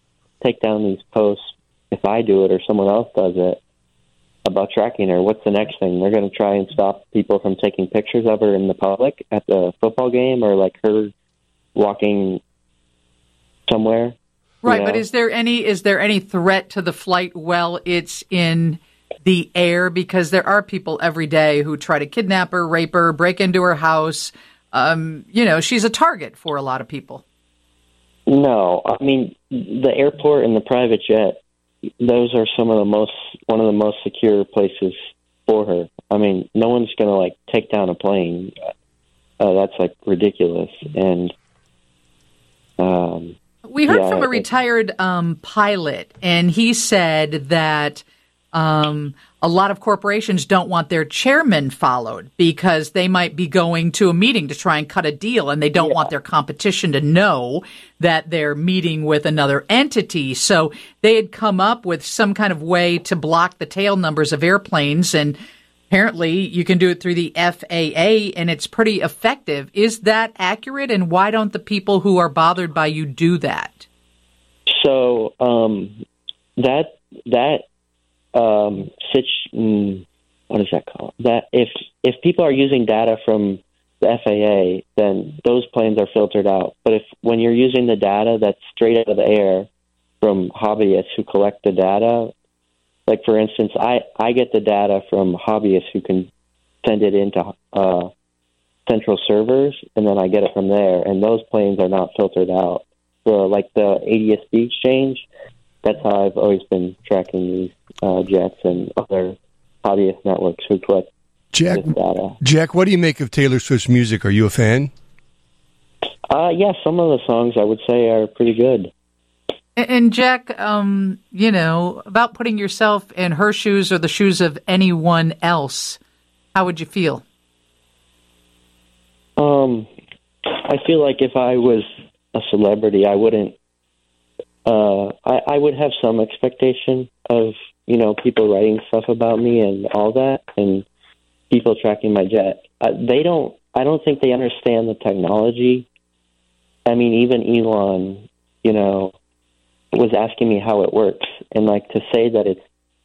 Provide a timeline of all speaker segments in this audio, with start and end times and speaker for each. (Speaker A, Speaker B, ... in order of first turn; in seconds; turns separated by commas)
Speaker A: 0.4-3.6, Speaker A: 4.4-11.1, Speaker A: 11.8-12.4, Speaker A: 13.7-15.0, Speaker B: 14.6-27.2, Speaker A: 28.3-31.4, Speaker A: 32.0-34.9, Speaker A: 35.5-38.5, Speaker A: 39.4-41.3, Speaker A: 42.8-44.5, Speaker B: 43.7-65.4, Speaker A: 55.8-56.1, Speaker B: 65.9-73.9, Speaker A: 74.7-76.0, Speaker A: 76.6-77.6, Speaker A: 78.3-89.7, Speaker A: 90.2-92.3, Speaker A: 93.1-96.3, Speaker A: 96.8-98.1, Speaker A: 98.9-105.2, Speaker A: 105.8-111.1, Speaker C: 111.5-111.9, Speaker A: 111.7-112.4, Speaker C: 112.4-114.9, Speaker A: 116.3-118.9, Speaker B: 119.8-126.0, Speaker B: 126.5-127.2, Speaker A: 129.4-129.9, Speaker A: 130.5-133.6, Speaker A: 134.6-140.9, Speaker A: 141.5-145.9, Speaker A: 146.9-149.1, Speaker A: 149.9-152.6